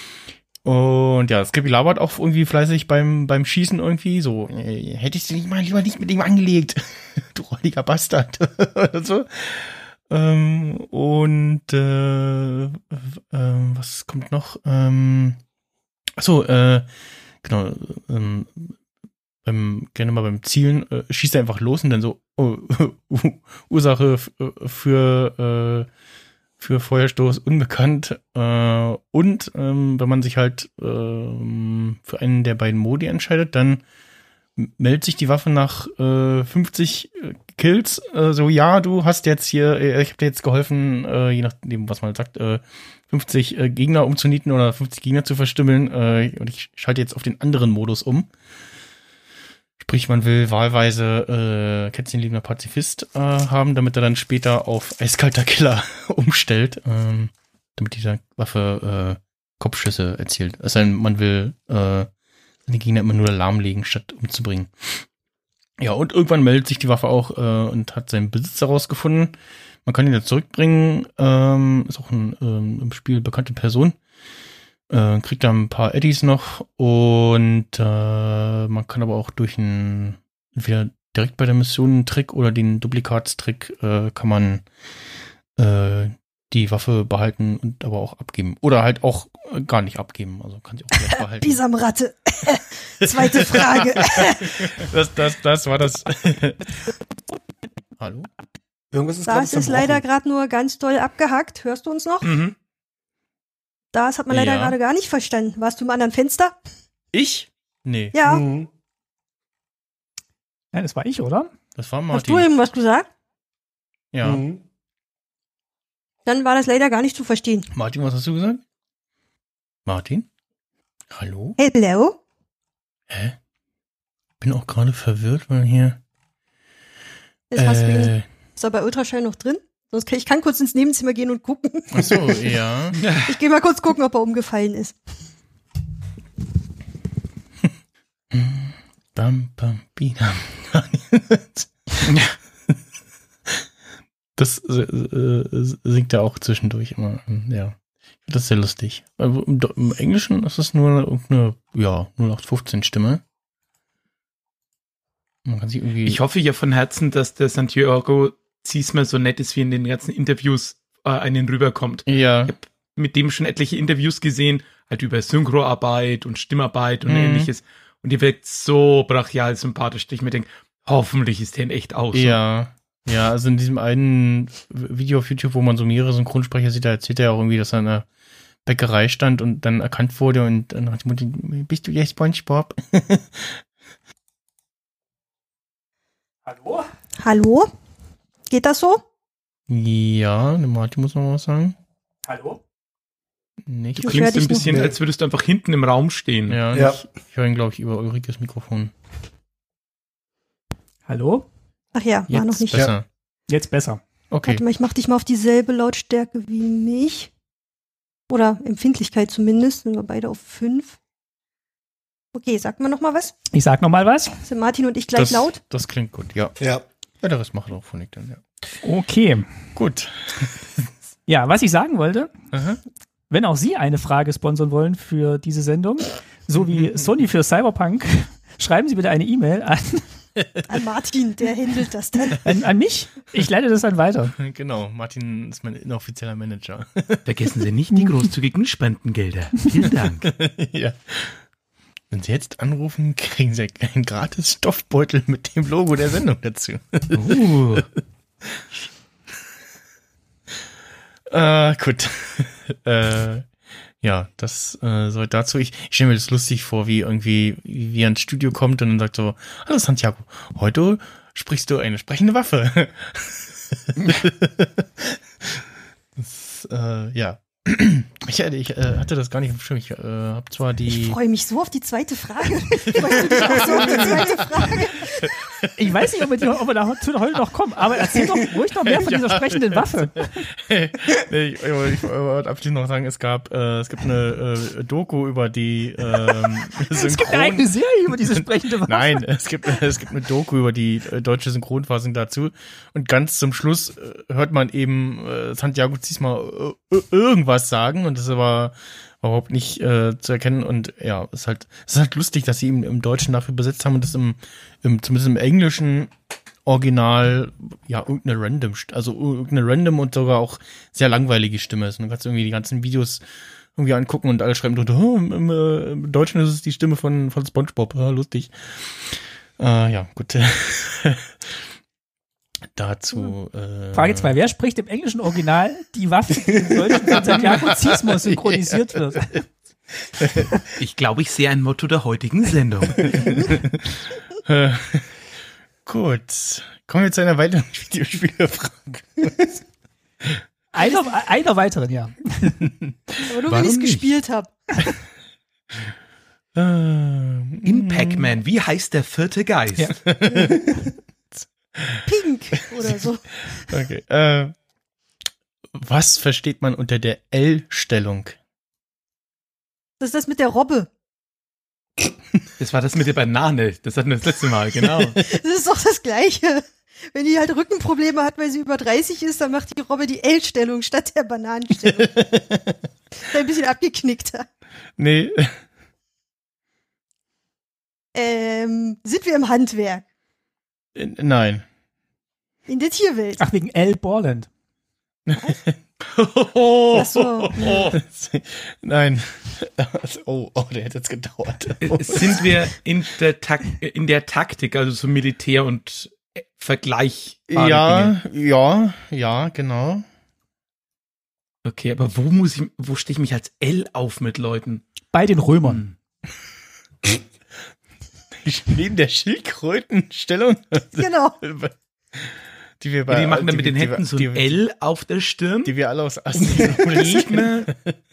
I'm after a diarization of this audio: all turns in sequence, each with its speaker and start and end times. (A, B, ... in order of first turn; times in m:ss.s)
0:00.6-0:15.4 A
0:16.2-0:16.9 A
0:17.4-0:18.8 A
0:19.4-0:25.9 A
0:26.6-0:33.8 A
0:34.6-0:48.3 A
0:49.8-1:02.1 A
1:02.7-1:05.0 A
1:05.8-1:14.0 A
1:14.9-1:24.6 A
1:25.6-1:31.6 A
1:31.1-1:34.8 B
1:33.0-1:36.7 A
1:38.0-1:38.3 A
1:38.9-1:40.0 C
1:39.3-1:42.3 B
1:42.2-1:42.6 D
1:43.9-1:46.6 B
1:44.3-1:44.8 A
1:47.1-1:48.2 A
1:48.1-1:48.4 B
1:48.2-1:48.7 C
1:50.7-1:51.5 E
1:51.8-1:52.5 A
1:52.1-1:53.1 B
1:54.1-1:54.4 A
1:54.2-1:54.6 C
1:56.3-1:57.7 B
1:57.7-1:58.6 A
1:59.9-2:00.3 A
2:01.1-2:01.6 A
2:01.6-2:02.2 B
2:03.1-2:03.4 A
2:04.4-2:06.0 A
2:07.5-2:12.5 B
2:07.6-2:08.2 A
2:11.9-2:13.0 A
2:13.0-2:13.3 D
2:13.3-2:15.0 B
2:18.3-2:22.8 A
2:24.4-2:33.2 A
2:35.5-2:36.2 A
2:36.0-2:52.4 D
2:42.1-2:42.6 A
2:47.0-2:47.5 A
2:52.1-2:58.1 A
2:58.7-3:03.6 A
3:06.4-3:06.9 E
3:07.2-3:07.7 B
3:08.5-3:09.0 B
3:09.7-3:11.8 A
3:12.2-3:12.6 E
3:13.6-3:14.6 A
3:14.0-3:16.6 D
3:14.0-3:14.8 B
3:14.7-3:15.0 C
3:16.5-3:18.9 A
3:16.7-3:17.0 C
3:21.1-3:21.5 E
3:22.0-3:22.9 B
3:22.3-3:23.0 A
3:23.5-3:24.0 E
3:24.3-3:24.6 A
3:24.4-3:27.3 B
3:28.3-3:31.0 B
3:32.3-3:33.4 B
3:33.5-3:34.4 E
3:34.5-3:35.6 B
3:35.2-3:36.6 A
3:37.2-3:38.4 A
3:38.8-3:39.5 E
3:39.8-3:40.9 A
3:41.3-3:42.3 E
3:42.5-3:42.8 A
3:43.3-3:50.1 E
3:50.7-3:52.4 B
3:52.4-3:54.3 E
3:54.4-3:57.2 A
3:57.3-4:00.3 D
4:00.2-4:01.4 A
4:02.1-4:07.9 A
4:07.1-4:07.9 D
4:11.3-4:13.5 A
4:14.0-4:25.7 A
4:26.2-4:31.2 A
4:30.9-4:35.3 B
4:32.9-4:35.9 A
4:35.8-4:40.3 E
4:38.9-4:39.6 A
4:40.3-5:06.1 A
4:46.8-4:49.2 E
5:06.7-5:13.2 A
5:13.8-5:21.6 A
5:22.7-5:24.4 A
5:23.9-5:29.4 E
5:27.3-5:27.7 D
5:27.3-5:28.7 A
5:30.8-5:33.4 D
5:33.0-5:35.2 A
5:35.9-5:39.6 A
5:40.7-5:42.6 E
5:42.8-5:44.0 A
5:43.2-5:44.5 B
5:46.5-5:48.3 A
5:47.6-5:49.9 D
5:50.1-5:50.6 A
5:51.4-5:52.0 A
5:52.1-5:53.3 B
5:53.7-5:54.6 A
5:55.7-5:58.4 A
6:00.0-6:00.9 B
6:02.6-6:05.2 D
6:05.3-6:12.2 B
6:11.8-6:12.7 A
6:13.2-6:14.5 B
6:15.0-6:15.6 A
6:18.1-6:20.0 B
6:21.0-6:21.6 A
6:22.7-6:23.4 B
6:23.4-6:24.5 E
6:25.3-6:32.5 A
6:27.0-6:27.9 B
6:27.6-6:27.9 D
6:31.8-6:38.2 D
6:37.5-6:40.1 A
6:41.6-6:44.8 D
6:45.1-6:45.8 E
6:45.6-6:45.9 D
6:48.4-6:54.6 A
6:51.0-6:51.4 B
6:53.1-6:55.7 D
6:55.6-6:58.0 A
6:56.3-6:57.7 D